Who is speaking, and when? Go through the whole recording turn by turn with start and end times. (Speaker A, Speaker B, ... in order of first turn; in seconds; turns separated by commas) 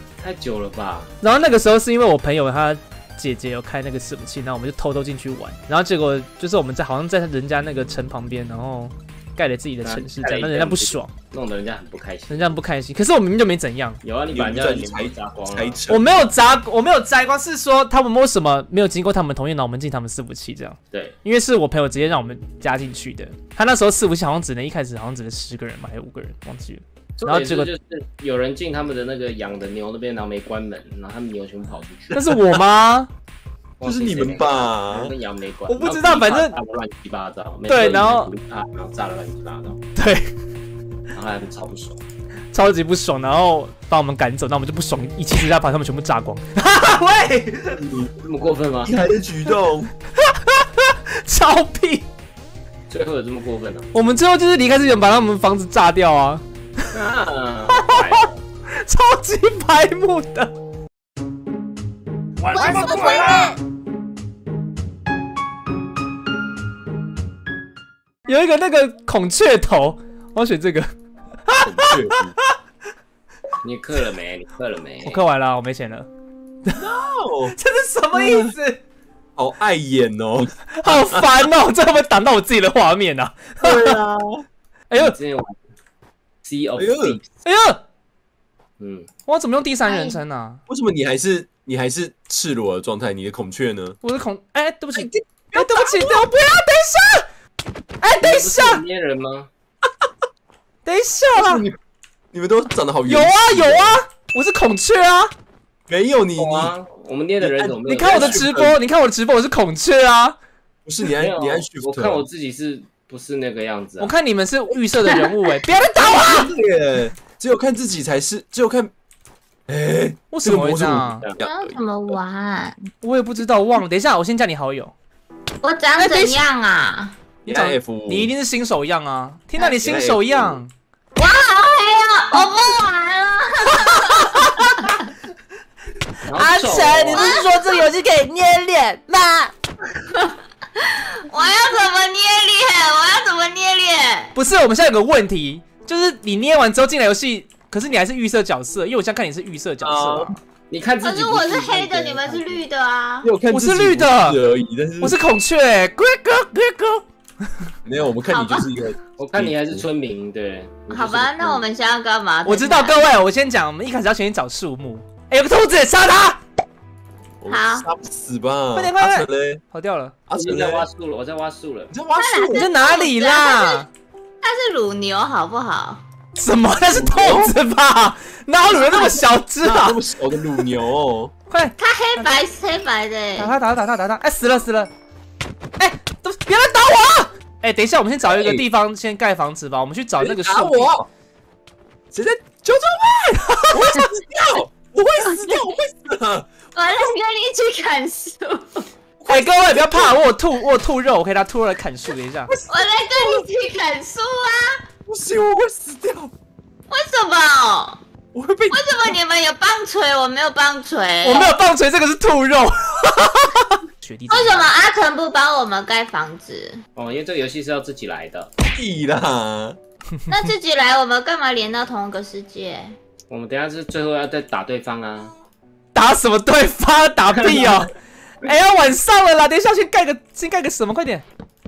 Speaker A: 0.2-1.1, Speaker B: 1.2-11.1, Speaker A: 9.8-12.6, Speaker B: 12.3-14.0, Speaker A: 14.0-15.8, Speaker C: 14.3-16.3, Speaker B: 15.9-27.7, Speaker A: 20.9-21.1, Speaker A: 27.2-32.2, Speaker B: 32.1-33.1, Speaker A: 33.8-39.8, Speaker C: 33.8-35.1, Speaker B: 35.7-36.5, Speaker B: 37.7-38.3, Speaker B: 40.0-40.3, Speaker A: 41.1-42.0, Speaker B: 42.5-47.8, Speaker C: 47.8-48.1, Speaker A: 48.2-49.0, Speaker C: 48.8-49.9, Speaker B: 50.4-52.0, Speaker A: 52.9-53.9, Speaker B: 53.9-56.4, Speaker A: 56.9-58.4, Speaker B: 57.7-58.1, Speaker B: 58.7-60.5, Speaker B: 62.5-63.5, Speaker D: 62.5-63.5, Speaker B: 68.3-70.9, Speaker B: 71.5-72.1, Speaker C: 71.7-72.3, Speaker A: 73.6-75.2, Speaker B: 75.0-76.1, Speaker C: 76.7-77.6, Speaker B: 77.5-78.8, Speaker C: 78.1-78.5, Speaker C: 79.4-81.5, Speaker B: 80.8-84.0, Speaker C: 83.6-84.4, Speaker B: 84.9-85.1, Speaker A: 84.9-85.6, Speaker A: 86.4-87.3, Speaker C: 86.8-87.2, Speaker B: 87.4-87.8, Speaker A: 88.8-89.1, Speaker B: 89.3-90.6, Speaker D: 89.8-90.2, Speaker C: 90.7-94.0, Speaker B: 94.0-97.2, Speaker C: 94.9-96.3, Speaker B: 98.0-98.8, Speaker A: 98.2-99.5, Speaker B: 100.8-101.7, Speaker C: 101.3-101.8, Speaker C: 102.3-104.0, Speaker B: 103.0-105.3, Speaker C: 105.9-106.7, Speaker A: 106.4-108.4, Speaker C: 107.4-108.8, Speaker B: 107.9-110.4, Speaker C: 110.8-112.2, Speaker A: 111.1-114.1, Speaker B: 114.0-116.5, Speaker C: 116.0-118.9, Speaker C: 119.7-121.8, Speaker B: 120.3-121.2, Speaker D: 121.4-122.8, Speaker B: 123.0-124.9, Speaker D: 125.6-127.1, Speaker B: 126.0-126.4, Speaker B: 127.4-130.7, Speaker C: 127.5-128.3, Speaker C: 129.6-130.6, Speaker D: 131.2-134.8, Speaker B: 134.2-134.7, Speaker A: 136.2-137.4, Speaker B: 136.3-139.5, Speaker D: 137.1-137.8, Speaker D: 140.1-144.3, Speaker B: 144.3-150.4, Speaker C: 149.8-150.3, Speaker A: 150.7-152.6, Speaker D: 151.0-153.3, Speaker C: 153.2-155.2, Speaker B: 153.5-154.4, Speaker B: 155.0-157.0, Speaker C: 157.8-159.8, Speaker D: 158.3-158.7, Speaker A: 159.2-161.7, Speaker D: 160.9-163.0, Speaker B: 162.4-166.4, Speaker C: 167.4-169.6, Speaker D: 167.5-167.9, Speaker B: 168.7-170.1, Speaker C: 170.3-170.9, Speaker A: 170.3-171.9, Speaker C: 171.9-172.7, Speaker D: 172.2-173.8, Speaker B: 172.5-173.9, Speaker D: 174.4-176.0, Speaker B: 176.3-180.0, Speaker C: 176.9-177.6, Speaker C: 178.7-181.3, Speaker B: 181.5-182.3, Speaker D: 181.8-183.5, Speaker B: 183.4-184.9, Speaker B: 185.8-190.9, Speaker C: 188.2-188.6, Speaker C: 190.2-191.1, Speaker C: 192.1-196.5, Speaker B: 193.4-194.1, Speaker D: 196.7-198.8, Speaker C: 199.2-200.2, Speaker B: 199.3-202.5, Speaker C: 202.5-203.4, Speaker D: 202.7-204.8, Speaker C: 205.1-206.3, Speaker D: 206.9-208.0, Speaker C: 208.3-209.1, Speaker D: 208.7-211.5, Speaker B: 211.2-214.7, Speaker D: 214.3-216.8, Speaker A: 216.9-218.5, Speaker C: 218.7-219.8, Speaker D: 220.3-222.9, Speaker A: 223.3-225.3, Speaker B: 225.9-231.2, Speaker A: 227.4-227.8